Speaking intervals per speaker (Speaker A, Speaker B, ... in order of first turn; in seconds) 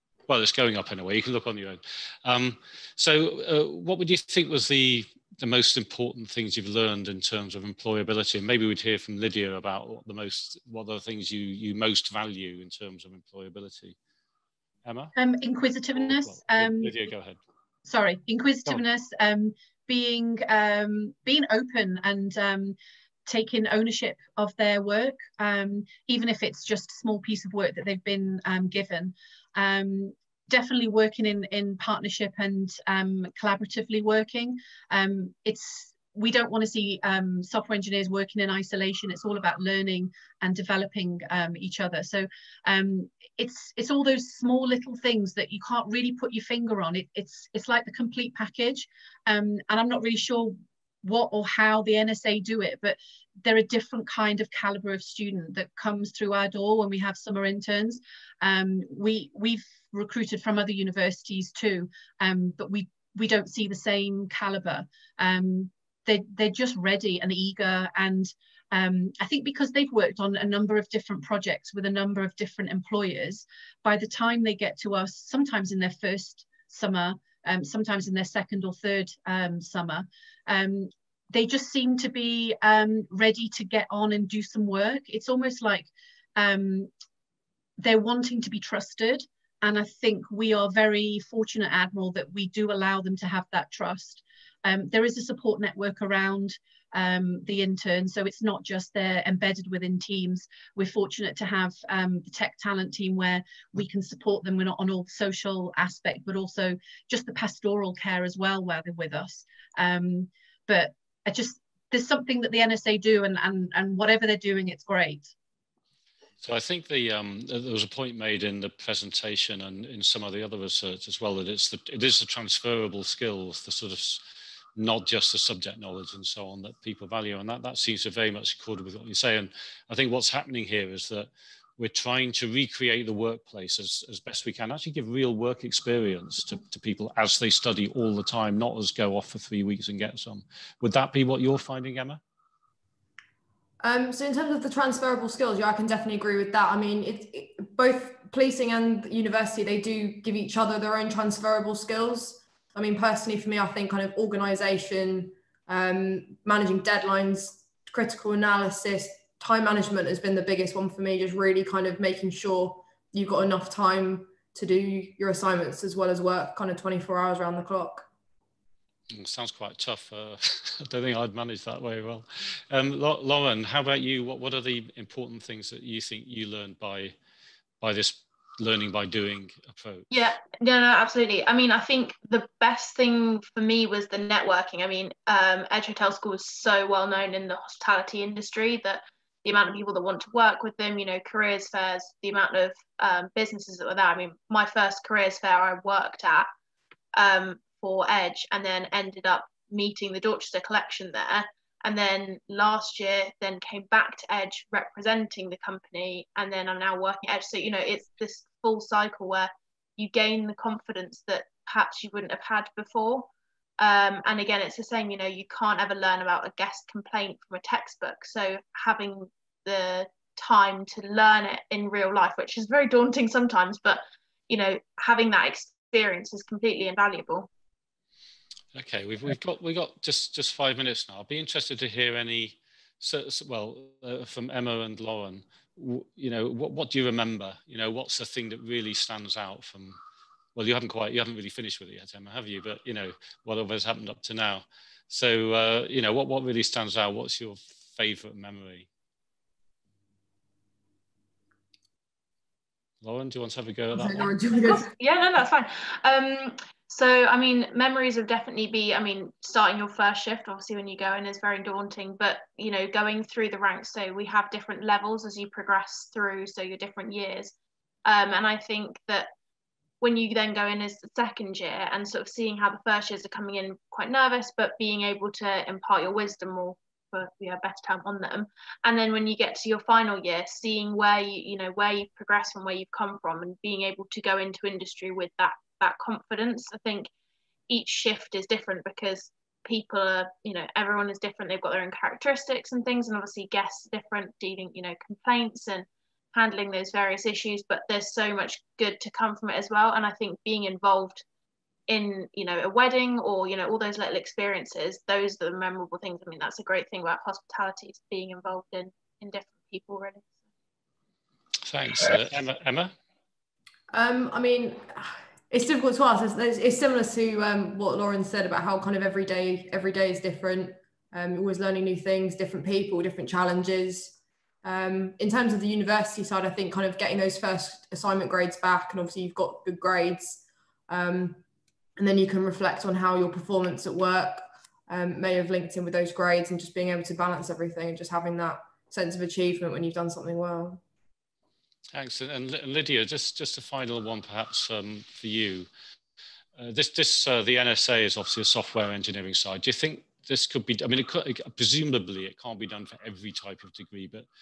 Speaker A: 0.3-13.9, 14.8-15.2, 15.9-17.4, 116.4-124.2, 124.8-142.2, 169.1-177.2, 177.8-180.1, 228.7-240.0, 240.6-248.9, 253.0-254.3, 311.6-312.9, 341.9-345.7, 346.6-354.3
Speaker B: 15.2-17.0, 17.9-86.9, 87.8-115.3
Speaker C: 143.8-168.1, 253.9-254.9, 313.9-331.4, 332.0-340.8
Speaker D: 180.1-196.5, 197.2-227.5, 254.6-267.6, 268.1-269.3, 270.0-287.1, 287.7-301.2, 301.9-310.3